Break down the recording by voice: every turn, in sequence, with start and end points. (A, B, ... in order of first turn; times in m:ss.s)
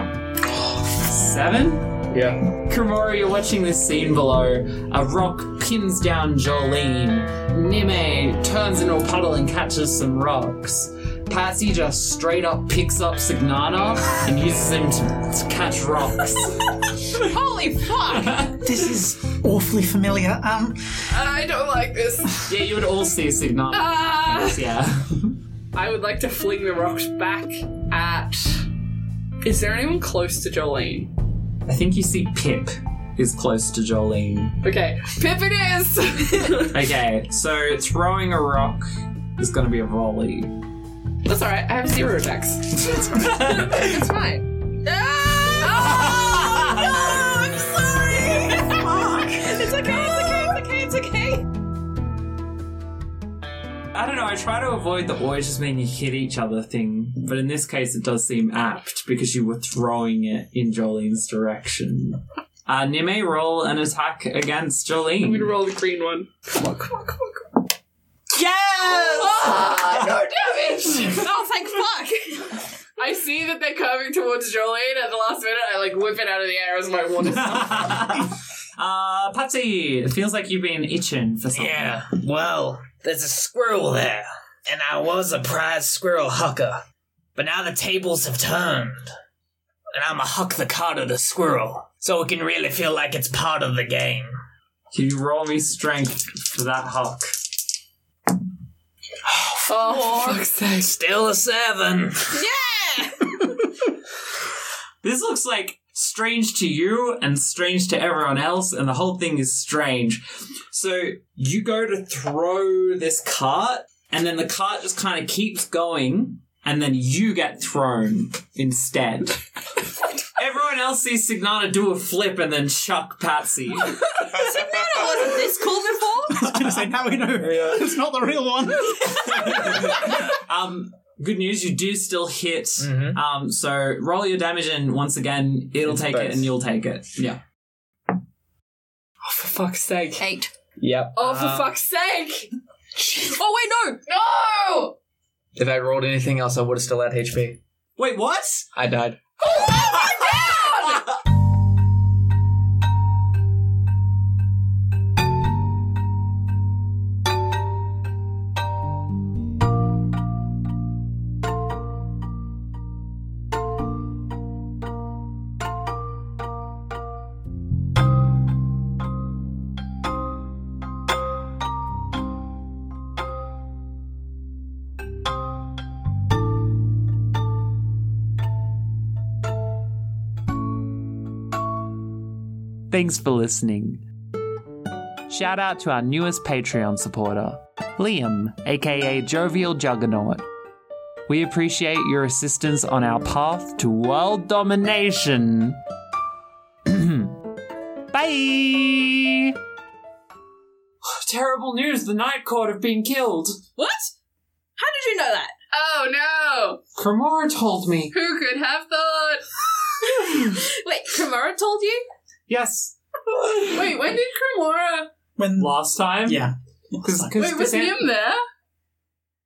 0:00.8-0:16.8 A
0:17.3-0:18.5 B
0:18.0-0:18.5 C
0:18.5-0:21.1 D
0:21.1-0:22.6 C
0:22.4-0:25.4 A
0:23.7-0:24.6 C
0:25.7-0:28.6 C
0:29.4-0:31.1 C
0:31.6-0:34.6 A
0:34.6-0:36.8 C
0:36.6-0:40.5 A
0:41.2-0:43.1 C
0:43.0-0:43.9 A
0:43.2-0:51.4 B
0:45.7-0:47.1 A
0:48.4-0:49.1 C
0:53.9-1:05.5 A
1:05.2-1:07.6 C
1:08.3-1:09.6 A
1:08.9-1:11.2 C
1:09.3-1:09.8 B
1:10.9-1:12.6 B
1:13.0-1:18.2 C
1:17.2-1:22.0 A
1:21.5-1:26.8 E
1:27.4-1:29.1 E
1:29.9-1:34.3 E
1:34.9-1:37.4 A
1:39.7-1:40.9 C
1:39.7-1:40.4 B
1:40.7-1:42.4 E
1:42.3-1:43.7 B
1:45.0-1:59.4 A
2:00.4-2:04.1 A
2:04.1-2:06.6 B
2:06.3-2:09.9 D
2:09.3-2:17.4 A
2:12.8-2:13.2 E
2:16.0-2:16.3 F
2:19.3-2:20.2 C
2:20.2-2:20.5 B
2:20.8-2:21.1 F
2:21.1-2:22.5 C
2:21.2-2:21.7 A
2:23.0-2:24.9 B
2:25.6-2:27.6 F
2:25.6-2:27.3 E
2:28.0-2:28.7 A
2:28.7-2:29.2 F
2:29.4-2:31.0 B
3:02.9-3:04.0 A
3:05.3-3:10.5 A
3:11.3-3:15.8 A
3:16.9-3:17.4 A
3:18.1-3:19.5 A
3:21.0-3:23.6 A
3:23.8-3:24.1 B
3:24.8-3:25.5 B
3:25.7-3:26.8 C
3:27.0-3:28.1 A
3:28.1-3:30.1 C
3:30.3-3:32.0 B
3:32.5-3:33.0 A
3:33.5-3:35.1 C
3:35.4-3:37.4 D
3:35.6-3:38.1 A
3:37.3-3:38.4 C